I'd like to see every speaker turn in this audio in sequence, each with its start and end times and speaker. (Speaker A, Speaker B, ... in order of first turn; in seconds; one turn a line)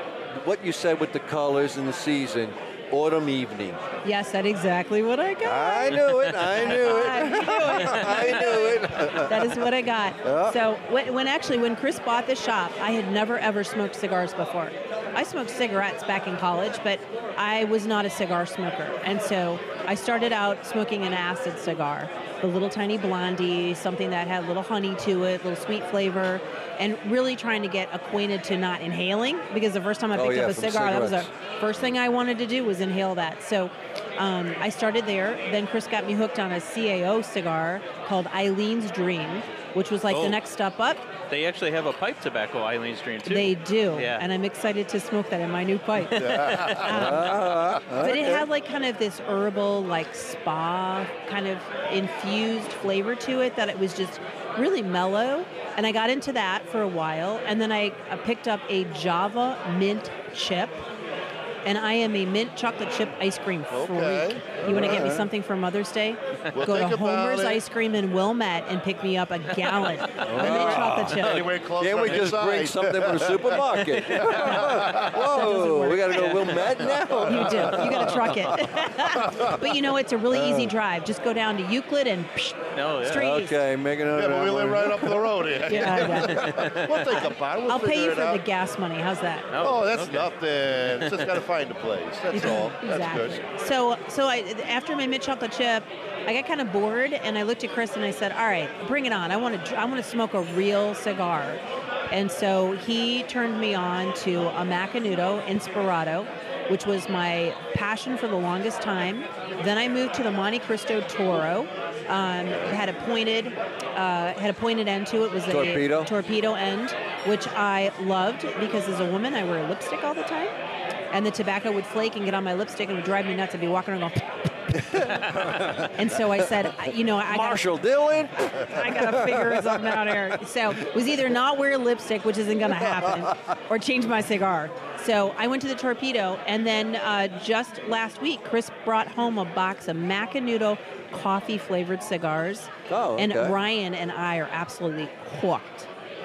Speaker A: 0.3-3.8
Speaker B: 4.0-41.0
Speaker A: 5.4-9.7
Speaker C: 6.1-6.3
Speaker C: 7.8-8.3
Speaker A: 10.2-10.6
Speaker A: 30.1-31.3
Speaker C: 41.3-44.2
Speaker B: 43.3-60.8
Speaker C: 46.1-47.1
Speaker D: 46.2-47.2
Speaker A: 46.8-48.5
Speaker B: 61.6-71.5
Speaker D: 63.7-65.0
Speaker A: 64.6-65.3
Speaker D: 66.5-67.6
Speaker C: 69.6-70.7
Speaker A: 70.2-78.7
Speaker D: 70.4-75.3
Speaker C: 73.8-74.8
Speaker B: 74.5-76.5
Speaker C: 76.1-77.0
Speaker D: 77.1-77.7
Speaker B: 77.3-83.6
Speaker D: 79.1-79.6
Speaker A: 80.3-80.7
Speaker C: 82.8-83.2
Speaker A: 83.1-86.5
Speaker D: 84.1-88.4
Speaker B: 85.7-86.4
Speaker C: 85.9-87.2
Speaker B: 87.7-89.5
Speaker C: 89.5-90.3
Speaker D: 89.6-93.4
Speaker C: 90.8-91.4
Speaker B: 92.3-120.5
Speaker A: 115.5-116.1
Speaker B: 121.1-124.9
Speaker A: 124.7-126.7
Speaker B: 126.0-127.7
Speaker A: 127.3-130.2
Speaker B: 128.7-145.9
Speaker A: 132.7-133.3
Speaker A: 142.9-143.6